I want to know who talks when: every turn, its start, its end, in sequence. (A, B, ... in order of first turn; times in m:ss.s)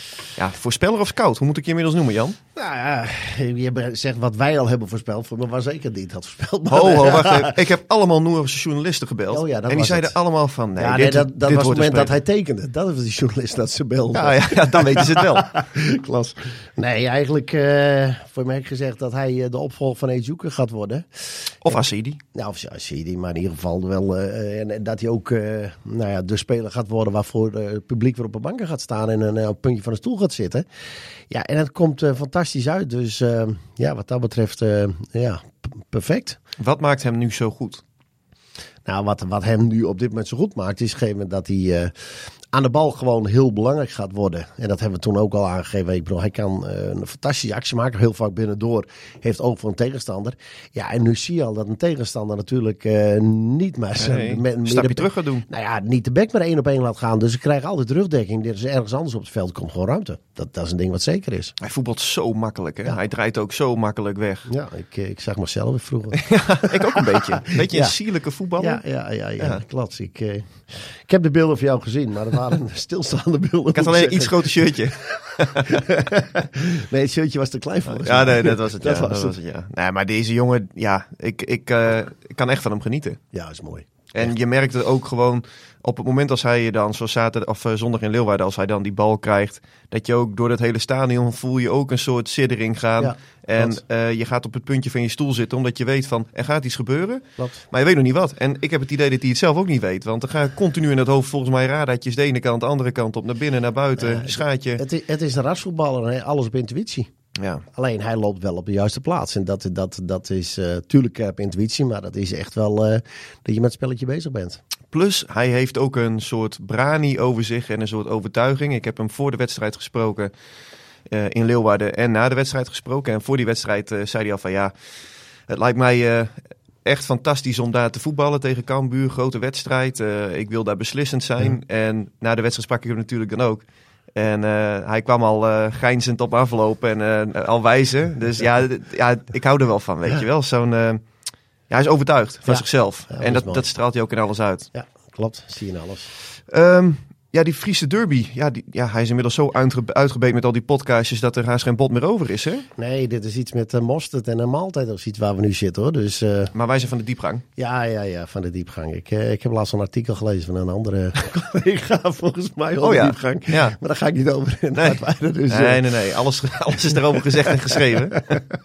0:00.4-0:02.4 A
0:02.6-0:07.6 B
0:06.7-0:12.1 A
0:09.3-0:10.2 B
0:10.8-0:21.8 B
0:14.1-0:15.5 A
0:21.6-0:22.2 A
0:22.3-0:30.6 B
0:31.3-0:36.4 B
0:36.6-0:37.8 A
0:38.9-1:01.6 B
0:54.0-0:55.5 A
1:01.6-1:04.5 A
1:04.5-1:08.0 B
1:06.2-1:08.8 A
1:08.6-1:19.3 B
1:13.7-1:15.8 A
1:17.9-1:23.2 A
1:23.3-1:23.9 B
1:24.1-1:44.8 A
1:33.0-1:33.8 B
1:44.0-1:47.1 B
1:47.4-1:47.6 A
1:47.7-1:54.6 B
1:54.9-2:00.3 A
2:01.1-2:04.7 A
2:05.5-2:21.0 A
2:21.7-2:24.7 A
2:22.5-2:23.7 B
2:24.7-2:26.1 B
2:26.5-2:32.7 A
2:32.8-2:36.5 B
2:36.5-2:37.4 A
2:37.6-2:45.9 B
2:42.8-2:43.8 A
2:44.8-2:48.4 A